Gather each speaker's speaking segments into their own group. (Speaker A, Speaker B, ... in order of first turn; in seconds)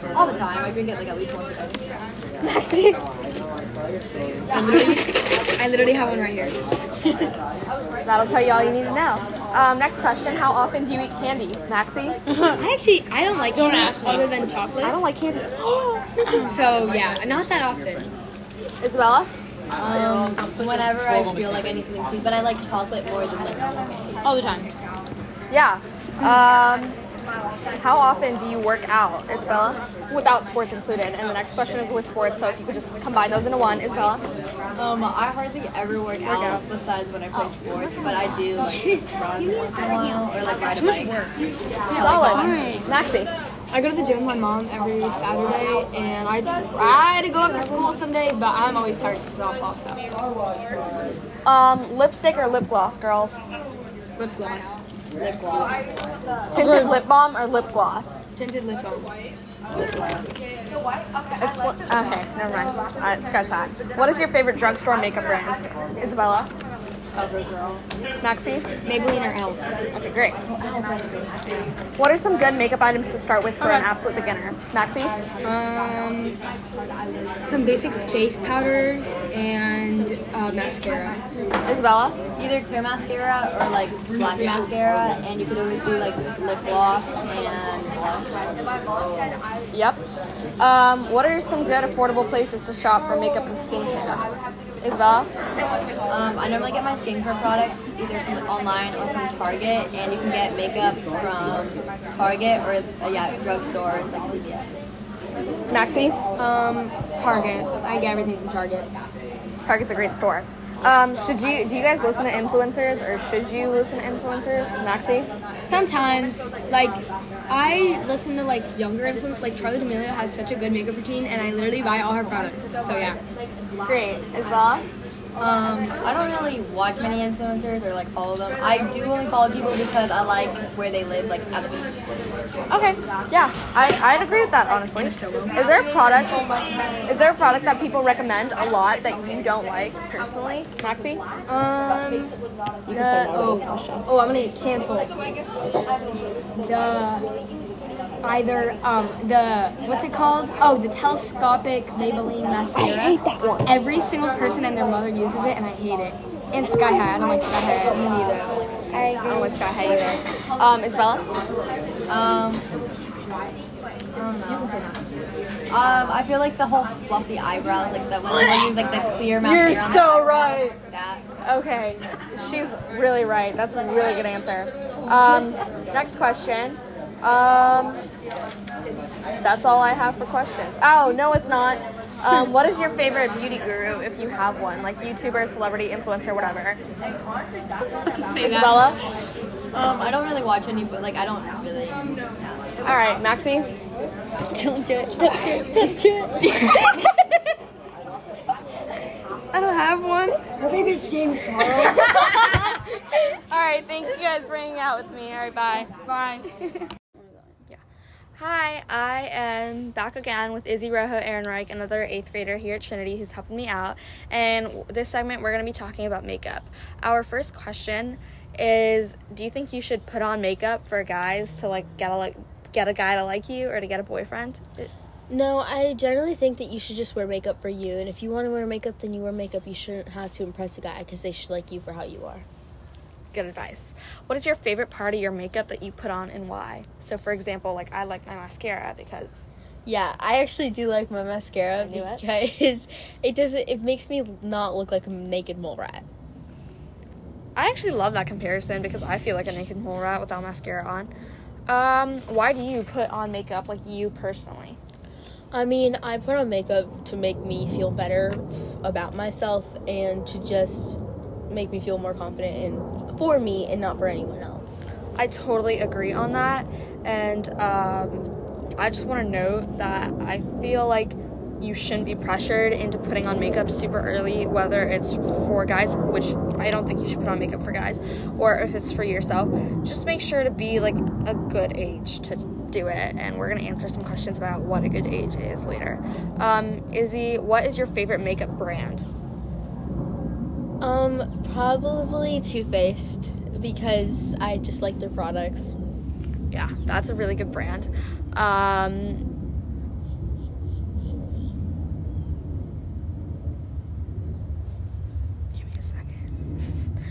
Speaker A: 0.1-2.0, 4.5-4.9, 19.8-24.2, 34.8-41.3, 41.9-42.6, 55.2-55.7, 67.1-67.8, 70.5-71.7, 82.4-88.3, 96.1-104.7, 125.4-131.9, 162.1-162.7, 164.2-165.0, 165.7-171.2, 189.7-192.1
Speaker B: 2.5-3.0, 4.5-6.6, 12.3-15.0, 16.2-18.1, 24.2-24.7, 38.6-39.0, 40.6-41.2, 42.1-42.9, 43.7-50.0, 54.2-54.8, 56.5-57.0, 58.4-59.1, 68.8-69.7, 75.4-76.4, 77.5-81.2, 106.3-108.9, 115.7-123.2, 134.9-135.6, 141.5-142.3, 142.9-145.1, 146.6-147.3, 148.2-158.5, 187.9-188.9, 196.5-197.1, 199.5-202.5, 206.1-206.5
Speaker C: 8.1-12.2, 14.8-15.7, 18.8-19.3, 25.5-27.0, 27.8-34.2, 36.3-36.6, 42.0-43.3, 51.5-53.4, 56.5-58.2, 61.4-66.5, 68.2-68.7, 69.9-70.4, 72.0-75.2, 81.7-82.2, 89.7-90.0, 90.6-94.3, 94.8-95.3, 105.7-106.2, 109.6-115.3, 123.8-124.9, 132.7-136.5, 137.1-141.2, 142.9-144.1, 152.8-153.7, 158.9-161.2, 169.4-170.8, 171.4-178.0, 179.4-186.8, 188.4-189.0, 192.8-193.7, 202.0-202.8, 203.3-206.0, 208.4-224.9, 233.3-239.5, 241.8-242.2, 247.6-251.1, 251.7-254.8, 265.2-289.1, 296.5-299.3, 305.6-306.2
Speaker D: 225.3-232.4, 239.8-246.1, 255.5-264.8, 290.8-295.8